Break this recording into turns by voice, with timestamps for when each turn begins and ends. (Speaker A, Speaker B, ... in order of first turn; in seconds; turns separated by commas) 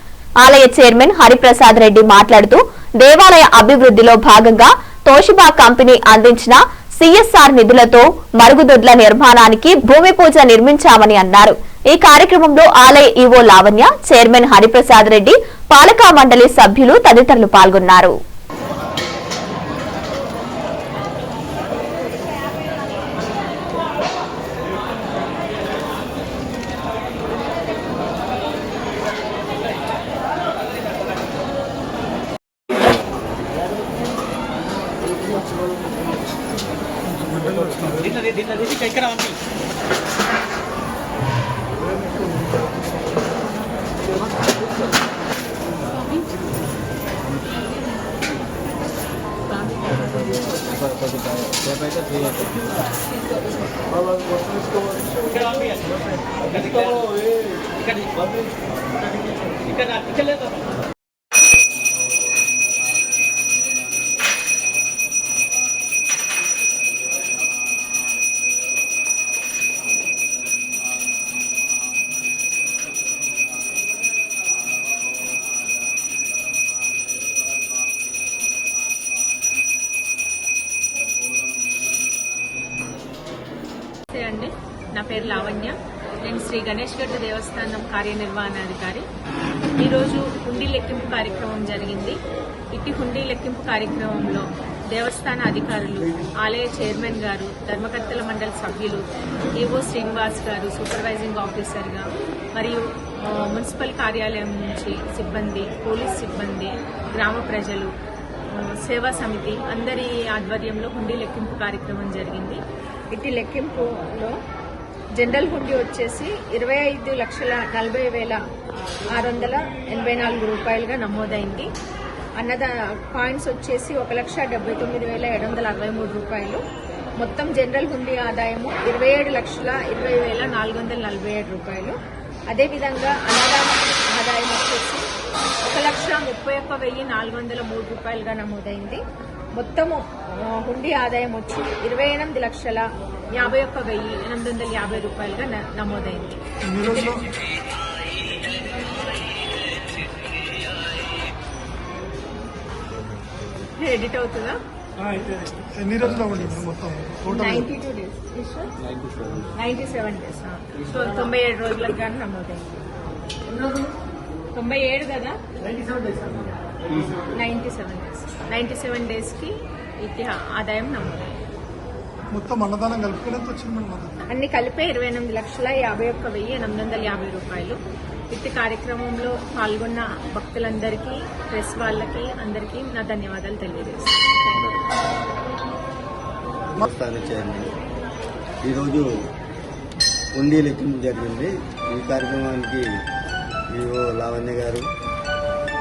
Speaker A: 0.4-18.1, Speaker B: 37.2-38.2, Speaker C: 38.8-39.2, Speaker C: 50.7-52.7, Speaker C: 55.3-55.9, Speaker D: 84.1-89.0, Speaker D: 89.8-92.2, Speaker D: 92.7-107.9, Speaker D: 108.5-112.6, Speaker D: 113.1-114.4, Speaker D: 115.1-118.4, Speaker D: 119.1-121.7, Speaker D: 122.4-126.6, Speaker D: 127.2-132.0, Speaker D: 132.5-135.1, Speaker D: 135.6-139.0, Speaker D: 139.5-146.4, Speaker B: 146.6-147.2, Speaker D: 153.8-154.6, Speaker B: 155.0-157.7, Speaker D: 157.3-158.7, Speaker D: 159.5-162.7, Speaker D: 164.5-165.4, Speaker D: 167.3-171.3, Speaker B: 172.3-174.2, Speaker D: 174.3-177.8, Speaker D: 178.3-184.2, Speaker E: 186.7-187.7, Speaker E: 188.6-189.1, Speaker E: 190.3-192.9, Speaker E: 193.7-194.9